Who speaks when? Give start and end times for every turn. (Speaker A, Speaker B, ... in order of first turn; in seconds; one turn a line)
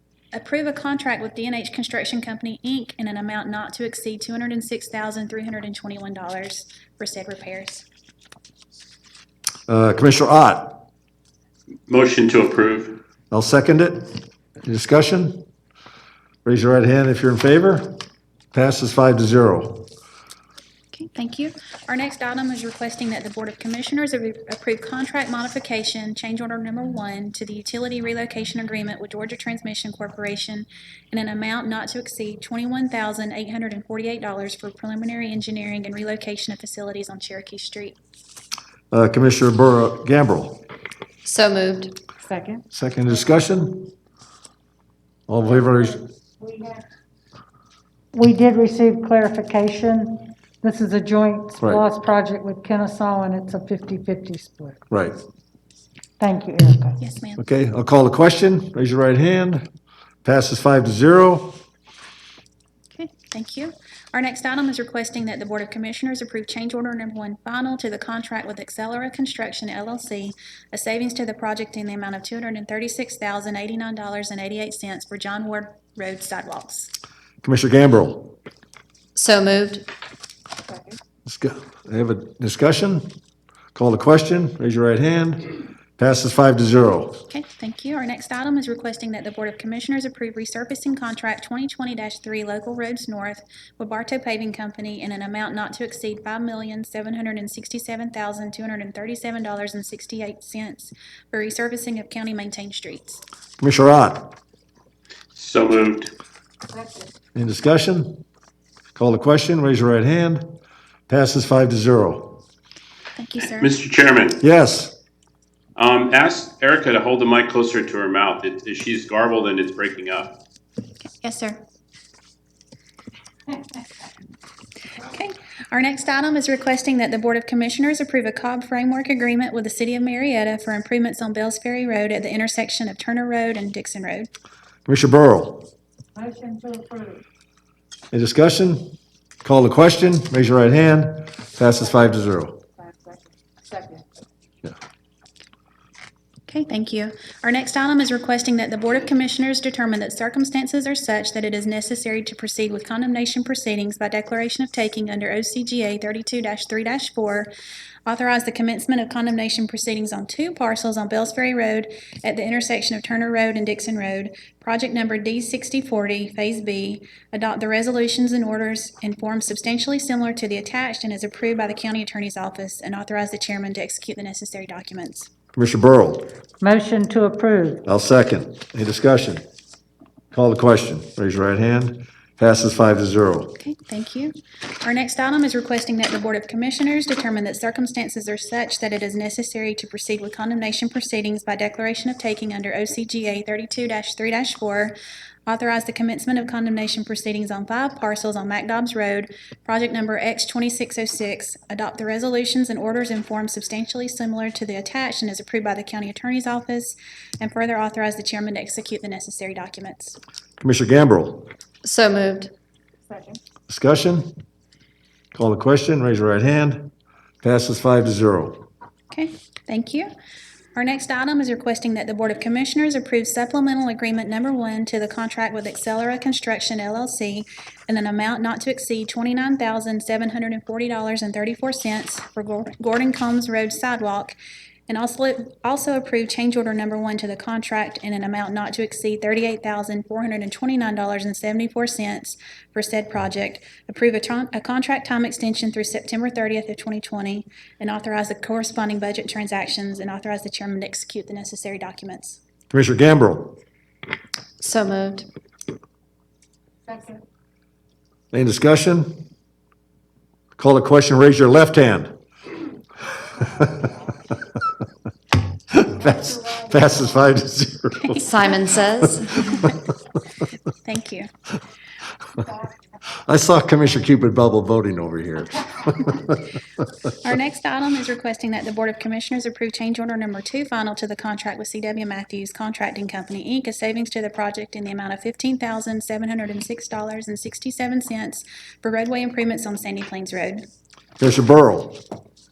Speaker A: 0.3-7.8
Speaker B: 9.7-10.8
Speaker C: 11.9-13.0
Speaker B: 13.3-14.1
Speaker B: 14.6-15.4
Speaker B: 16.4-17.9
Speaker B: 18.5-19.9
Speaker A: 20.9-38.0
Speaker B: 38.9-40.6
Speaker D: 41.2-42.0
Speaker E: 42.2-42.6
Speaker B: 42.7-43.9
Speaker B: 45.3-46.0
Speaker E: 46.4-46.8
Speaker E: 48.1-54.8
Speaker B: 54.9-55.2
Speaker E: 56.2-57.0
Speaker A: 57.0-57.4
Speaker B: 57.4-59.6
Speaker B: 60.2-61.5
Speaker A: 62.9-76.9
Speaker B: 77.4-78.3
Speaker D: 79.1-79.8
Speaker B: 81.2-83.1
Speaker B: 83.7-87.2
Speaker A: 87.3-103.2
Speaker B: 103.6-104.3
Speaker C: 105.3-106.1
Speaker B: 107.3-108.2
Speaker B: 108.9-110.4
Speaker B: 111.1-112.4
Speaker A: 113.2-113.7
Speaker C: 113.4-114.4
Speaker B: 114.4-114.9
Speaker C: 115.8-120.3
Speaker A: 121.2-121.6
Speaker A: 125.0-134.3
Speaker B: 134.8-135.7
Speaker E: 136.2-137.2
Speaker B: 138.1-138.9
Speaker B: 139.4-142.6
Speaker E: 142.9-143.2
Speaker E: 143.7-144.0
Speaker A: 146.5-157.5
Speaker A: 158.1-175.3
Speaker B: 175.5-176.3
Speaker E: 176.6-177.8
Speaker B: 177.8-179.4
Speaker B: 180.3-183.5
Speaker A: 183.6-194.9
Speaker A: 195.5-210.2
Speaker B: 210.6-211.5
Speaker D: 211.8-212.5
Speaker B: 213.7-214.3
Speaker B: 215.3-216.9
Speaker B: 217.4-218.6
Speaker A: 219.1-220.1
Speaker A: 220.7-234.3
Speaker A: 234.9-252.4
Speaker B: 252.7-253.6
Speaker D: 254.6-255.3
Speaker B: 258.3-259.1
Speaker B: 260.6-262.1
Speaker B: 263.5-263.8
Speaker B: 265.7-268.3
Speaker D: 268.2-269.5
Speaker A: 270.8-271.3
Speaker B: 273.2-276.4
Speaker A: 277.2-290.6
Speaker B: 291.2-292.0